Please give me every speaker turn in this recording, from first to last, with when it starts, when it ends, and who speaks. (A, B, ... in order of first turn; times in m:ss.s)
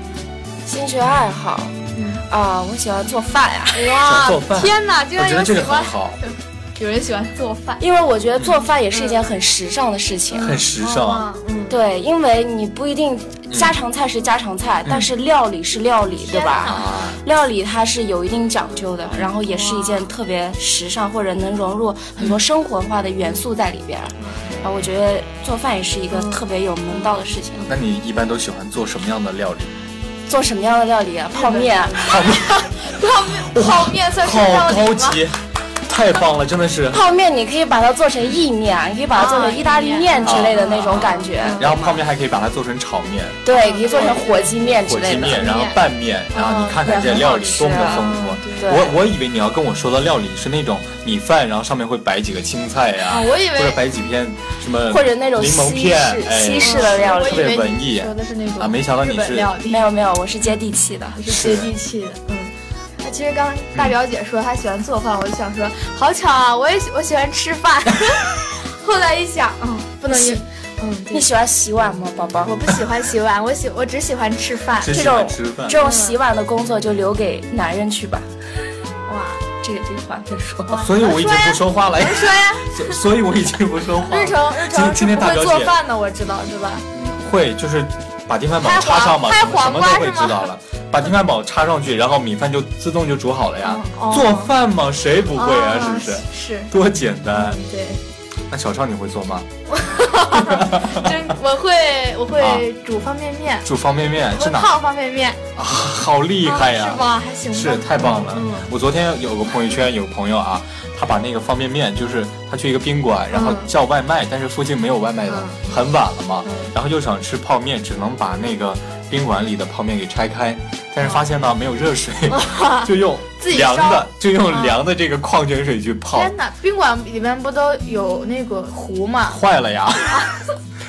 0:00.6-0:04.0 A
0:02.0-0:02.2 B
0:03.7-0:07.8 B
0:04.0-0:06.2 C
0:07.8-0:10.6 A
0:08.9-0:09.2 B
0:10.3-0:11.8 B
0:10.4-0:11.3 C
0:11.7-0:27.7 A
0:13.5-0:13.8 C
0:16.2-0:16.9 B
0:16.6-0:17.2 C
0:19.5-0:20.1 B
0:24.2-0:24.6 B
0:26.1-0:27.2 B
0:27.7-0:29.8 C
0:30.3-0:32.1 A
0:31.3-0:35.2 B
0:32.0-0:37.0 C
0:36.9-0:42.0 A
0:39.1-0:41.7 B
0:40.2-0:59.5 C
0:43.4-0:45.6 A
0:43.5-0:44.6 B
0:45.2-0:45.8 B
0:46.3-0:47.1 B
0:46.8-0:48.9 A
0:47.7-0:48.8 B
0:53.1-0:53.8 B
0:54.9-0:57.5 A
0:56.6-0:59.9 B
0:59.7-1:01.2 A
1:01.2-1:11.2 B
1:01.3-1:01.7 C
1:10.1-1:10.4 A
1:11.1-1:12.6 A
1:12.4-1:15.2 B
1:14.8-1:15.8 C
1:14.9-1:18.3 A
1:15.7-1:16.2 B
1:19.1-1:19.4 B
1:19.6-1:20.8 A
1:20.7-1:23.0 B
1:20.8-1:25.8 C
1:24.0-1:26.9 B
1:26.9-1:37.6 C
1:28.6-1:30.5 B
1:33.6-1:34.5 B
1:35.3-1:36.7 B
1:37.3-1:38.0 B
1:38.5-1:39.5 C
1:39.7-1:43.7 B
1:40.3-1:41.2 C
1:42.4-1:42.7 C
1:43.6-1:44.8 C
1:44.3-1:45.4 B
1:45.6-2:06.3 C
1:46.4-1:48.7 B
1:53.3-1:53.7 B
1:55.3-1:55.6 B
1:56.4-1:56.7 B
2:02.3-2:04.8 B
2:06.1-2:09.4 B
2:09.3-2:10.3 C